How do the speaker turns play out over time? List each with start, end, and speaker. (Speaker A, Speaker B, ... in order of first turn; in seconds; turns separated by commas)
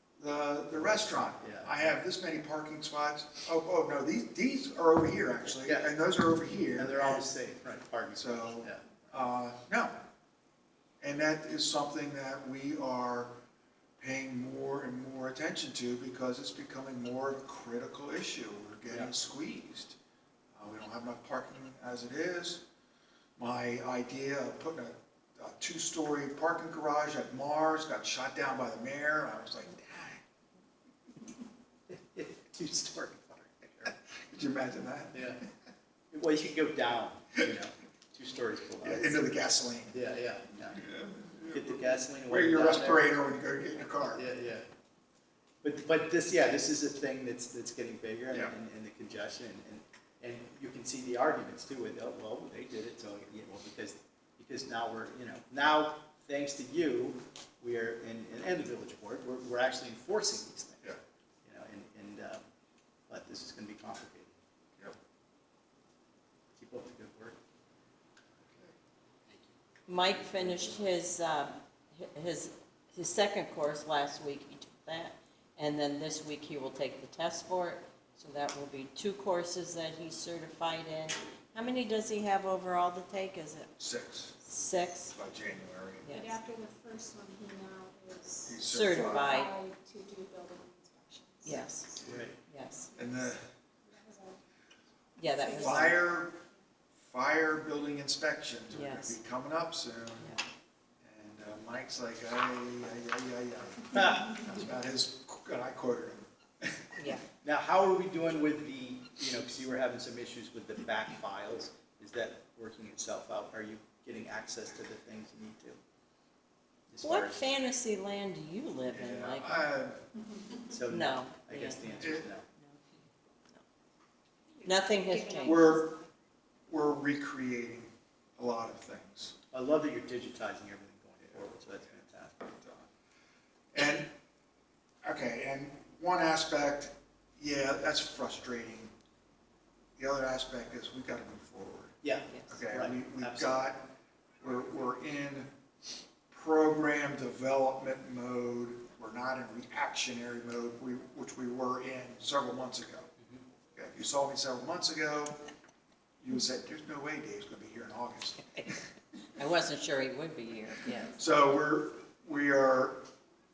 Speaker A: 0.2-7.3, Speaker B: 1.4-1.8, Speaker B: 5.5-5.9, Speaker B: 6.8-8.8, Speaker A: 8.2-10.0, Speaker A: 11.0-13.3, Speaker A: 14.0-20.0, Speaker A: 20.5-22.6, Speaker A: 23.4-30.2, Speaker B: 31.9-33.9, Speaker A: 33.9-35.5, Speaker B: 35.1-35.4, Speaker B: 36.1-39.3, Speaker A: 38.8-40.0, Speaker B: 39.9-40.8, Speaker A: 40.7-44.2, Speaker B: 41.5-43.1, Speaker B: 44.0-44.6, Speaker B: 45.6-60.8, Speaker B: 61.4-62.4, Speaker B: 63.1-64.4, Speaker B: 66.5-67.4, Speaker A: 68.5-68.7, Speaker C: 69.9-83.8, Speaker A: 83.8-84.4, Speaker C: 84.4-85.1, Speaker A: 85.1-86.1, Speaker C: 86.0-86.4, Speaker D: 86.1-91.6, Speaker A: 88.5-89.4, Speaker C: 88.6-89.5, Speaker C: 91.4-92.9, Speaker A: 92.0-92.3, Speaker B: 92.0-92.4, Speaker A: 93.0-93.4, Speaker D: 93.8-94.4, Speaker C: 95.2-96.0, Speaker D: 95.4-95.7, Speaker A: 95.5-96.4, Speaker A: 97.0-100.4, Speaker C: 98.7-99.2, Speaker A: 101.0-106.2, Speaker B: 103.9-104.5, Speaker C: 107.0-107.2, Speaker B: 107.4-115.8, Speaker B: 116.9-117.5, Speaker C: 117.0-119.6, Speaker A: 118.9-120.0, Speaker B: 120.7-122.4, Speaker C: 120.9-123.0, Speaker A: 122.0-122.3, Speaker D: 124.5-125.9, Speaker C: 124.6-125.8, Speaker A: 125.4-126.0, Speaker A: 126.7-129.3, Speaker B: 129.5-132.5, Speaker A: 132.5-132.9, Speaker A: 133.7-134.1, Speaker A: 135.0-138.9, Speaker A: 140.0-145.5, Speaker B: 142.0-143.7, Speaker A: 146.3-153.1, Speaker A: 153.7-155.4, Speaker A: 156.2-158.7, Speaker C: 159.4-161.2, Speaker A: 161.1-163.0